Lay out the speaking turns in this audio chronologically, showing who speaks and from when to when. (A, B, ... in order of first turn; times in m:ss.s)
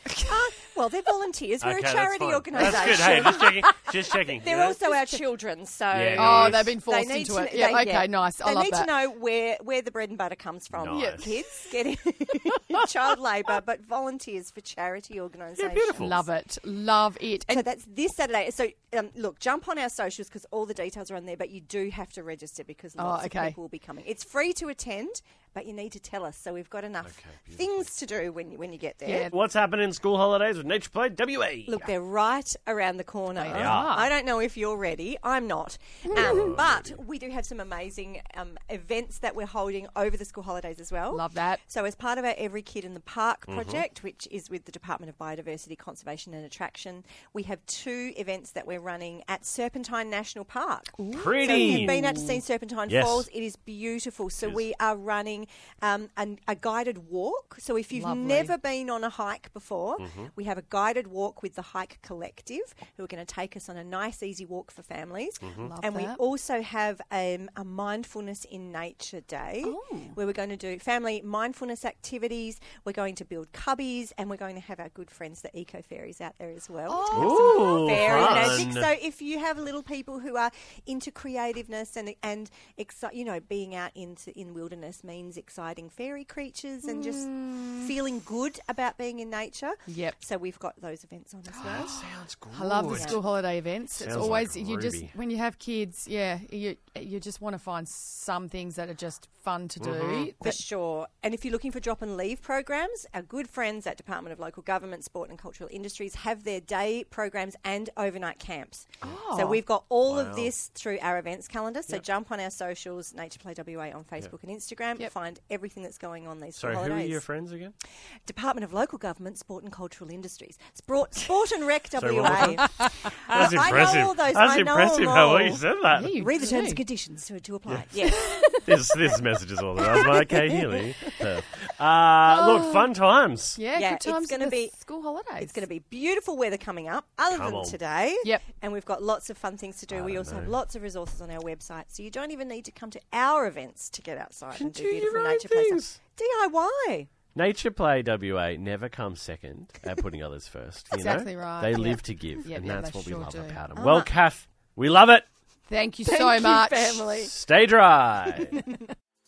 0:00.2-0:16.1 A
0:01.6-0:04.8 B
0:05.9-0:06.8 B
0:06.1-0:09.0 C
0:10.7-0:11.4 B
0:10.9-0:11.7 C
0:12.5-0:12.7 C
0:15.5-0:16.2 B
0:15.9-0:17.6 C
0:17.4-0:29.3 A
0:23.0-0:23.6 C
0:27.0-0:27.9 B
0:29.0-0:29.3 C
0:29.3-0:31.8 B
0:31.7-1:31.9 A
0:33.4-0:34.1 C
0:33.4-0:34.0 B
0:36.1-0:36.5 C
0:36.1-0:37.0 B
0:41.1-0:41.6 C
0:43.5-0:43.8 B
0:51.0-0:52.4 C
0:51.1-0:52.1 B
0:52.9-0:53.3 B
0:54.4-0:54.6 B
0:57.9-0:58.5 C
1:00.0-1:00.3 B
1:05.4-1:05.7 B
1:05.5-1:06.2 C
1:09.6-1:10.2 C
1:16.9-1:18.7 C
1:17.1-1:18.9 B
1:26.8-1:27.9 C
1:29.8-1:30.2 C
1:31.5-1:40.6 C
1:31.6-1:33.2 B
1:32.9-1:33.2 A
1:33.9-1:35.1 B
1:39.8-1:40.3 B
1:40.4-1:57.2 A
1:49.0-1:49.6 C
1:50.0-1:50.5 B
1:56.6-1:57.7 B
1:58.2-2:08.8 A
2:02.0-2:06.2 B
2:02.4-2:02.8 C
2:05.9-2:06.8 C
2:07.7-2:07.9 B
2:08.6-2:13.6 B
2:12.2-2:12.9 C
2:13.5-2:15.6 C
2:13.7-2:14.8 A
2:15.4-2:27.1 A
2:17.3-2:17.8 B
2:19.9-2:20.5 B
2:24.5-2:26.0 B
2:27.3-2:35.2 B
2:30.9-2:33.6 C
2:33.7-2:34.1 A
2:35.7-2:37.3 C
2:36.0-2:37.3 A
2:37.2-2:38.6 B